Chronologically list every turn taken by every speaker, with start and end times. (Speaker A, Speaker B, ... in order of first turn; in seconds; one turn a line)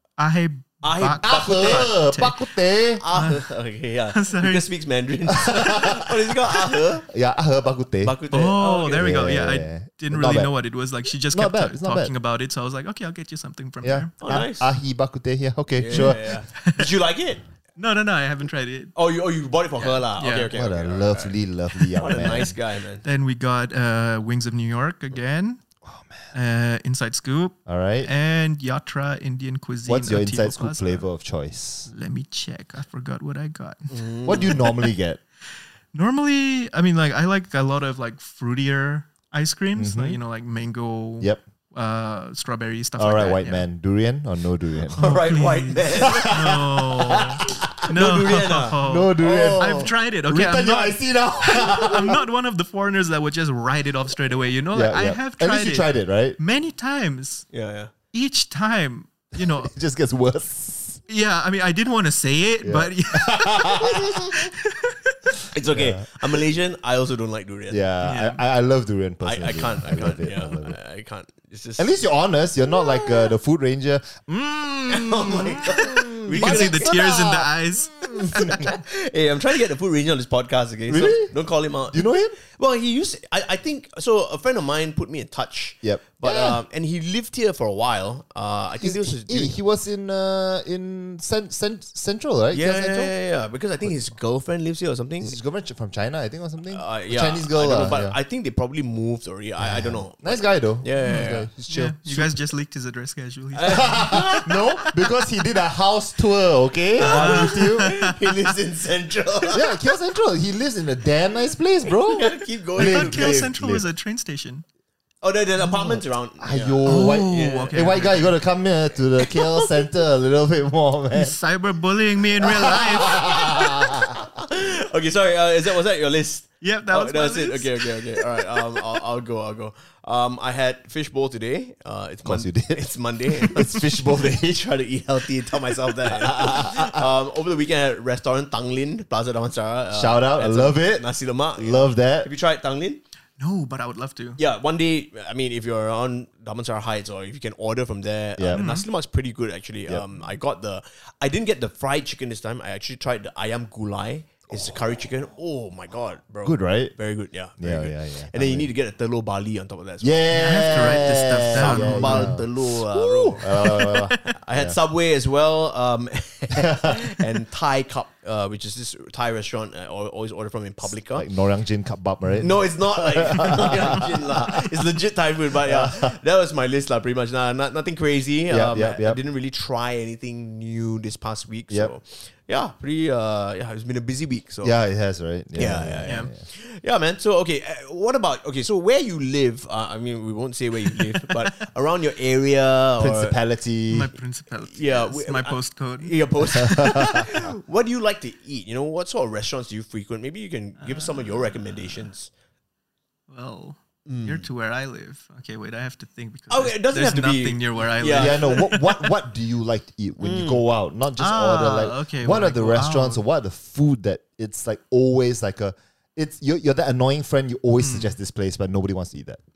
Speaker A: 0.2-2.4
Speaker B: 0.8-1.9
Speaker C: 1.2-3.0
Speaker B: 3.0-7.0
Speaker A: 3.1-3.5
Speaker A: 4.1-4.7
Speaker C: 5.4-6.2
Speaker C: 7.0-8.2
Speaker B: 8.0-9.2
Speaker A: 8.3-14.4
Speaker C: 9.0-10.5
Speaker C: 11.3-12.1
Speaker C: 13.8-16.4
Speaker B: 14.2-14.7
Speaker B: 15.8-17.4
Speaker A: 15.9-16.9
Speaker A: 17.8-18.9
Speaker B: 18.9-21.4
Speaker A: 19.8-20.5
Speaker C: 20.5-22.5
Speaker A: 21.8-22.5
Speaker B: 22.0-23.0
Speaker A: 23.0-25.6
Speaker C: 25.9-26.2
Speaker A: 26.3-31.0
Speaker C: 27.6-28.1
Speaker C: 29.9-31.9
Speaker A: 31.9-34.9
Speaker B: 33.9-34.5
Speaker C: 34.2-35.2
Speaker A: 35.9-43.6
Speaker C: 39.8-40.2
Speaker C: 43.0-45.2
Speaker B: 45.0-46.6
Speaker A: 45.0-57.5
Speaker C: 46.0-47.7
Speaker B: 47.9-49.9
Speaker C: 48.8-52.2
Speaker C: 54.7-56.4
Speaker B: 57.5-57.9
Speaker A: 58.1-59.7
Speaker C: 59.4-61.0
Speaker A: 61.1-65.1
Speaker C: 62.6-64.5
Speaker B: 65.5-67.8
Speaker C: 65.7-66.0
Speaker C: 67.7-70.8
Speaker A: 68.0-68.4
Speaker B: 69.2-71.9
Speaker C: 71.8-77.5
Speaker B: 72.9-73.2
Speaker B: 74.9-77.1
Speaker A: 75.6-78.5
Speaker B: 78.0-89.5
Speaker C: 78.1-78.7
Speaker C: 80.9-81.3
Speaker C: 81.9-82.4
Speaker C: 85.8-86.6
Speaker C: 88.8-93.1
Speaker B: 92.5-95.4
Speaker C: 95.2-98.2
Speaker B: 96.7-101.5
Speaker C: 99.6-102.3
Speaker A: 101.0-104.4
Speaker B: 103.5-104.8
Speaker C: 103.7-107.9
Speaker B: 107.0-109.7
Speaker A: 107.0-108.5
Speaker C: 109.5-113.8
Speaker B: 112.1-113.5
Speaker A: 112.8-114.6
Speaker B: 115.2-117.9
Speaker C: 115.8-121.4
Speaker A: 116.8-118.3
Speaker B: 119.2-119.7
Speaker A: 121.1-123.3
Speaker C: 122.4-124.1
Speaker B: 122.9-143.0
Speaker A: 126.6-128.8
Speaker C: 132.2-134.6
Speaker C: 136.0-137.1
Speaker C: 139.9-142.3
Speaker A: 143.4-144.4
Speaker B: 144.4-171.3
Speaker C: 148.4-148.7
Speaker A: 148.5-148.9
Speaker C: 156.4-156.9
Speaker C: 157.6-158.7
Speaker C: 160.0-164.8
Speaker A: 160.3-162.4
Speaker C: 166.5-167.1
Speaker C: 171.1-174.3
Speaker B: 172.4-184.7
Speaker C: 175.6-176.1
Speaker C: 178.5-179.2
Speaker C: 184.6-186.4
Speaker B: 185.5-193.3
Speaker C: 193.0-194.1
Speaker A: 193.9-196.9
Speaker B: 194.7-202.3
Speaker C: 196.6-197.3
Speaker A: 200.8-202.1
Speaker A: 203.3-208.9
Speaker B: 204.0-204.4
Speaker B: 206.5-208.8
Speaker C: 208.1-219.4
Speaker B: 210.2-210.6
Speaker A: 211.2-213.2
Speaker A: 217.8-218.1